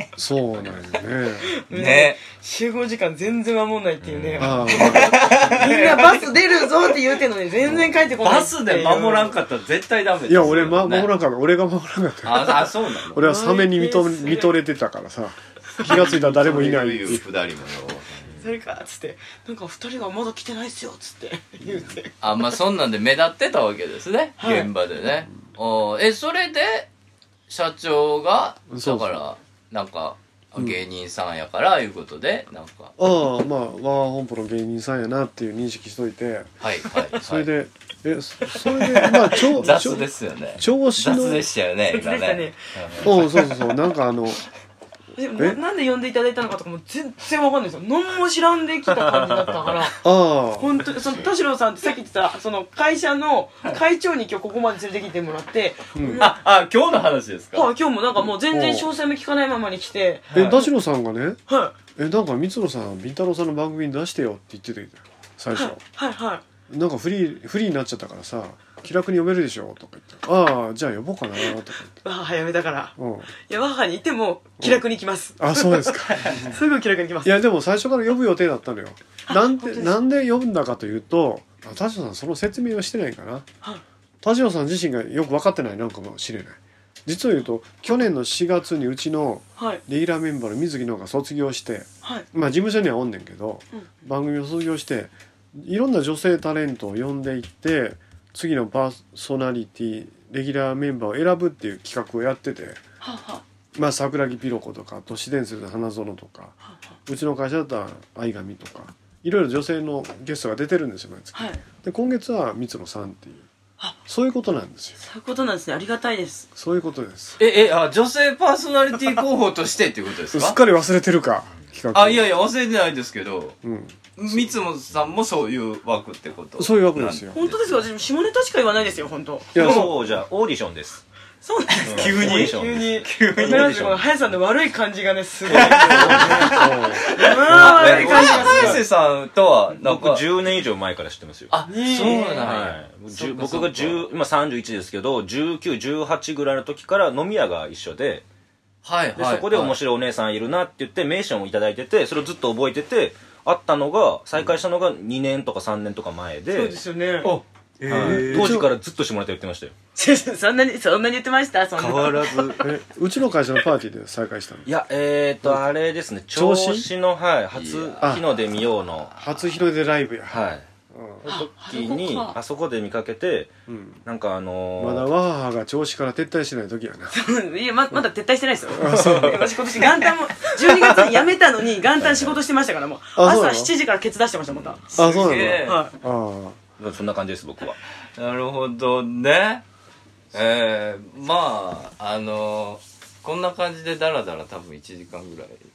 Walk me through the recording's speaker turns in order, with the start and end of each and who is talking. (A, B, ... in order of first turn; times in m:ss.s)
0:00.2-0:01.5 A
0:01.6-0:09.4 B
0:01.7-0:02.2 C
0:04.0-0:04.7 D
0:04.4-0:05.5 A
0:04.8-0:06.2 C
0:07.6-0:07.9 A
0:08.2-0:11.1 C
0:10.2-0:17.2 A
0:12.2-0:13.2 C
0:13.2-0:14.5 B
0:15.8-0:18.2 C
0:18.4-0:22.3 B
0:21.6-0:21.9 A
0:22.2-0:26.9 C
0:24.4-0:24.7 B
0:27.5-0:32.9 C
0:28.7-0:29.2 A
0:33.0-0:36.5 A
0:36.6-0:37.5 C
0:37.1-0:41.4 A
0:38.6-0:43.1 C
0:39.6-0:39.9 B
0:41.9-0:42.6 B
0:43.0-0:44.4 A
0:45.1-0:50.0 B
0:50.0-0:50.8 A
0:50.6-0:56.4 B
0:55.9-0:56.3 A
0:56.2-0:57.7 C
0:57.5-1:00.6 B
0:58.5-0:58.9 A
1:00.3-1:00.6 C
1:00.3-1:01.4 A
1:01.5-1:01.7 B
1:02.0-1:05.8 A
1:05.5-1:06.4 B
1:06.7-1:12.0 A
1:12.0-1:12.9 B
1:13.0-1:13.3 A
1:13.5-1:17.4 B
1:15.4-1:16.6 A
1:17.2-1:23.4 A
1:19.3-1:20.0 B
1:24.2-1:42.8 A
1:43.0-1:43.4 B
1:43.7-1:53.5 A
1:51.3-1:51.6 B
1:54.0-1:55.0 A
1:55.0-1:56.5 B
1:56.6-1:57.4 A
1:57.4-2:00.6 C
2:00.3-2:02.3 A
2:01.9-2:03.6 C
2:03.6-2:04.4 A
2:04.2-2:07.7 C
2:06.6-2:07.4 A
2:07.3-2:09.8 B
2:09.5-2:09.9 A
2:09.6-2:11.0 D
2:11.4-2:18.8 B
2:11.8-2:14.0 D
2:11.8-2:13.9 C
2:15.5-2:20.2 C
2:15.6-2:16.4 D
2:15.9-2:18.8 A
2:17.6-2:18.7 D
2:19.8-2:28.2 D
2:21.5-2:24.1 C
2:21.6-2:22.5 B
2:28.8-2:29.8 C
2:29.2-2:37.3 D
2:36.5-2:37.3 B
2:37.8-2:38.7 A
2:37.9-2:39.7 D
2:37.9-2:38.6 C
2:40.0-2:42.6 B
2:41.8-2:42.6 D
2:42.6-2:44.7 A
2:44.6-2:49.1 D
2:46.3-2:46.9 A
2:47.5-2:48.6 C
2:49.2-2:51.2 A
2:50.3-2:50.6 D
2:51.2-2:53.5 D
2:51.2-2:52.4 B
2:53.7-2:54.0 A
2:54.0-2:55.1 D
2:54.8-2:57.1 A
2:57.1-3:05.9 B
2:58.7-2:59.5 A
3:02.0-3:02.4 D
3:03.2-3:03.7 A
3:04.5-3:04.8 D
3:04.9-3:05.8 C
3:04.9-3:06.6 A
3:06.8-3:07.8 D
3:08.2-3:09.6 C
3:10.3-3:15.6 C